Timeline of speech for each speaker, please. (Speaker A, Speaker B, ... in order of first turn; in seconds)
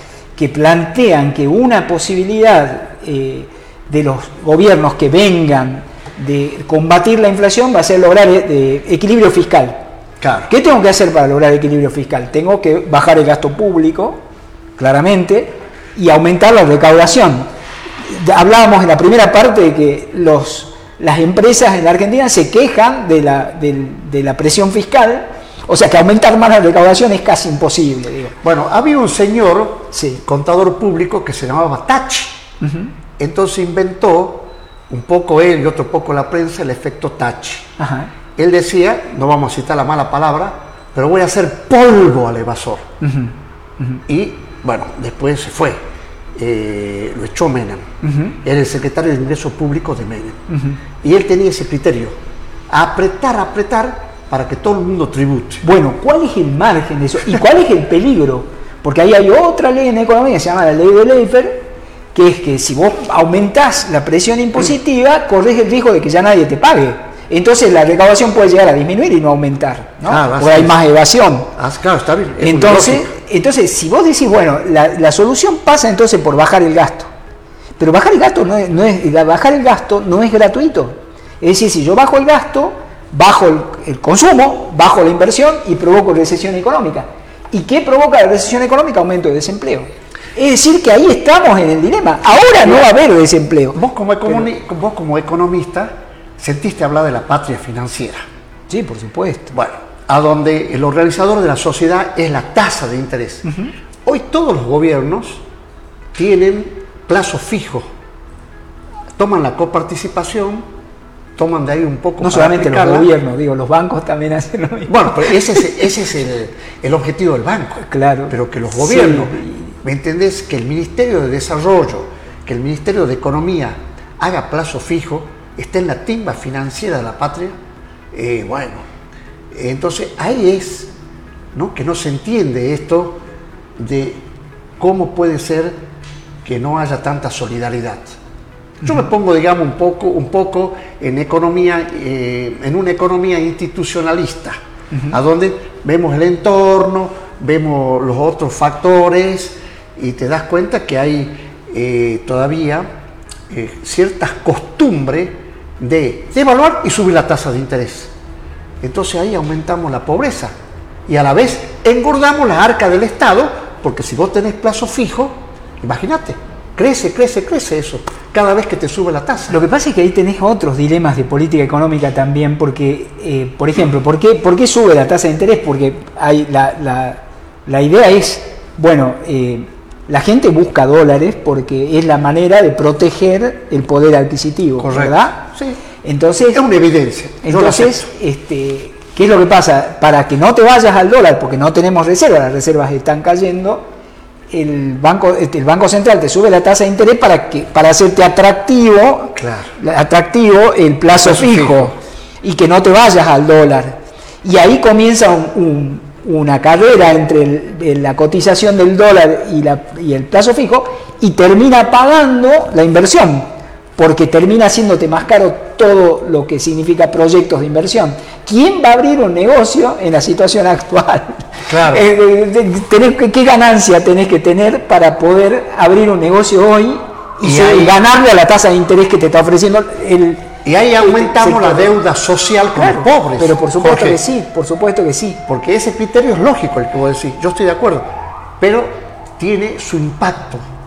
Speaker A: 0.3-9.8, 10.5-14.2, 14.8-17.4, 18.0-28.3, 29.9-30.2, 32.6-32.9, 37.8-38.1, 43.0-44.0, 48.0-48.4, 50.5-50.8, 55.6-71.5, 72.4-77.1, 77.8-93.8, 98.7-99.5, 103.4-103.7, 112.2-115.8, 117.8-119.7, 144.9-145.2, 169.5-185.4, 186.0-186.6, 187.4-193.8, 194.5-230.4, 231.0-232.0, 232.7-235.4
Speaker B: 10.2-10.5, 28.4-32.4, 33.2-37.7, 38.4-42.8, 44.1-45.8, 46.4-47.9, 48.4-50.4, 51.0-52.1, 52.7-55.6, 70.0-70.8, 71.5-73.1, 92.6-92.9, 93.7-98.2, 99.5-103.4, 104.0-105.4, 106.1-107.9, 109.2-110.6, 111.4-113.1, 114.9-127.5, 128.1-128.8, 129.5-130.9, 131.5-133.2, 133.8-134.2, 134.8-135.8, 136.4-138.1, 138.8-144.6, 145.1-152.9, 153.5-158.1, 158.8-160.5, 161.1-169.6, 184.8-185.8, 186.5-188.1, 199.3-199.7, 201.1-201.9, 221.7-222.1, 227.4-227.9, 230.6-234.2, 235.5-238.1, 238.6-240.6